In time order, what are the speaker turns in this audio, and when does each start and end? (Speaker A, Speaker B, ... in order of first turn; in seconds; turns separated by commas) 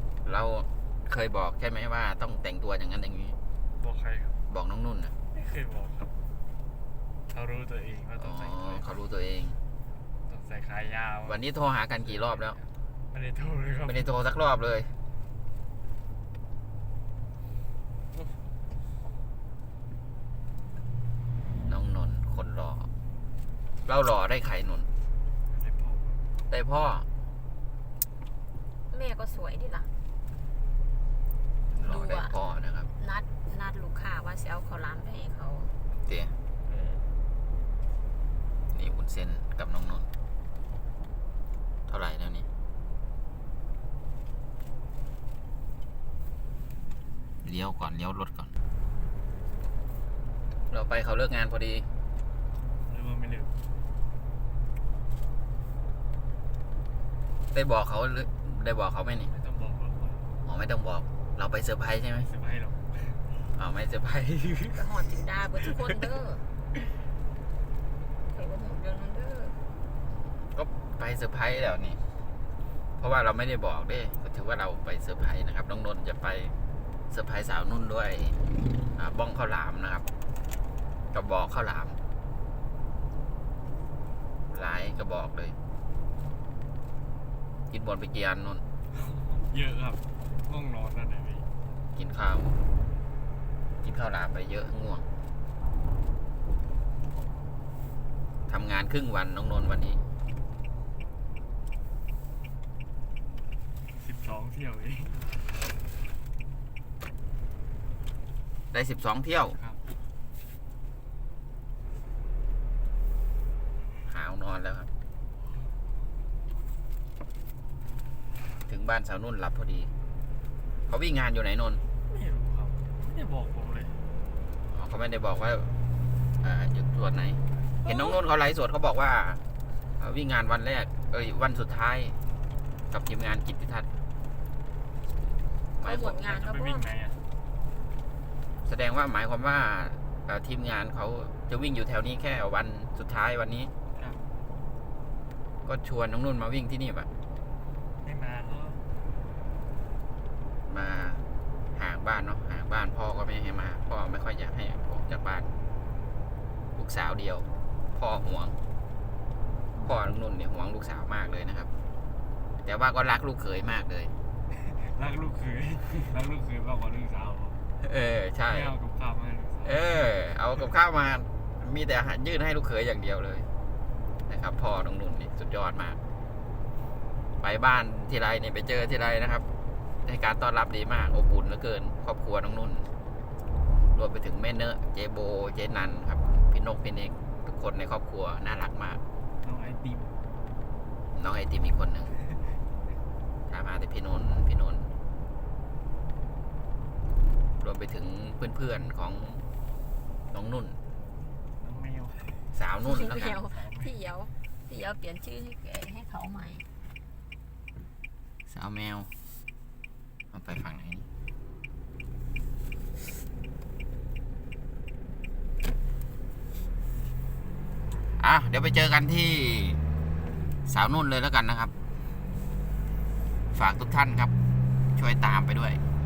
Speaker A: 0.2-3.4, Speaker B: 3.8-4.4, Speaker A: 4.5-5.1, Speaker B: 5.3-6.1, Speaker B: 7.3-9.0, Speaker A: 8.2-9.6, Speaker B: 10.3-11.4, Speaker A: 11.3-12.6, Speaker B: 12.0-14.1, Speaker A: 13.9-14.9, Speaker A: 21.7-22.9, Speaker A: 23.9-24.9, Speaker B: 25.5-26.2, Speaker A: 26.5-27.1, Speaker C: 28.9-29.9, Speaker A: 31.7-32.9, Speaker C: 31.9-32.3, Speaker C: 33.0-35.7, Speaker A: 36.1-36.3, Speaker B: 36.7-37.0, Speaker A: 38.7-40.1, Speaker A: 41.9-42.5, Speaker A: 47.4-48.5, Speaker A: 50.7-51.9, Speaker B: 52.9-53.5, Speaker A: 57.5-59.3, Speaker B: 59.3-60.3, Speaker A: 60.5-62.3, Speaker B: 62.2-63.2, Speaker A: 63.6-65.0, Speaker C: 64.7-66.5, Speaker C: 68.3-69.6, Speaker A: 70.1-72.0, Speaker A: 73.0-76.5, Speaker A: 77.1-78.4, Speaker A: 79.0-80.1, Speaker A: 81.1-82.0, Speaker A: 84.5-85.6, Speaker A: 87.7-88.6, Speaker B: 89.0-91.5, Speaker A: 92.0-92.5, Speaker A: 93.8-95.0, Speaker A: 98.5-100.0, Speaker B: 104.0-105.5, Speaker A: 108.7-109.6, Speaker B: 109.5-109.8, Speaker A: 114.1-114.9, Speaker A: 118.7-119.9, Speaker A: 120.9-121.8, Speaker B: 122.1-124.0, Speaker A: 124.7-125.7, Speaker A: 126.4-129.4, Speaker A: 130.0-132.2, Speaker A: 132.9-133.9, Speaker A: 135.8-136.2, Speaker C: 135.8-136.9, Speaker B: 136.2-137.2, Speaker A: 138.7-143.7, Speaker B: 143.9-144.2, Speaker A: 145.7-147.1, Speaker B: 148.0-148.8, Speaker A: 150.7-151.2, Speaker A: 151.8-155.5, Speaker A: 156.8-158.6, Speaker A: 159.8-161.7, Speaker A: 162.7-164.1, Speaker B: 164.6-167.6, Speaker A: 167.8-168.7, Speaker B: 168.5-169.9, Speaker A: 169.6-173.5, Speaker A: 174.3-176.0, Speaker A: 177.4-179.5, Speaker A: 180.1-182.9, Speaker A: 183.9-189.0, Speaker B: 189.4-190.2, Speaker A: 191.1-192.1, Speaker A: 193.5-194.9, Speaker A: 197.6-199.4, Speaker A: 200.3-200.8, Speaker B: 201.6-202.5, Speaker A: 202.5-203.4, Speaker C: 202.8-206.7, Speaker B: 203.5-203.9, Speaker A: 208.5-209.1, Speaker A: 210.3-211.1, Speaker A: 218.2-219.8, Speaker A: 220.7-221.7, Speaker A: 223.5-224.3, Speaker A: 225.0-225.8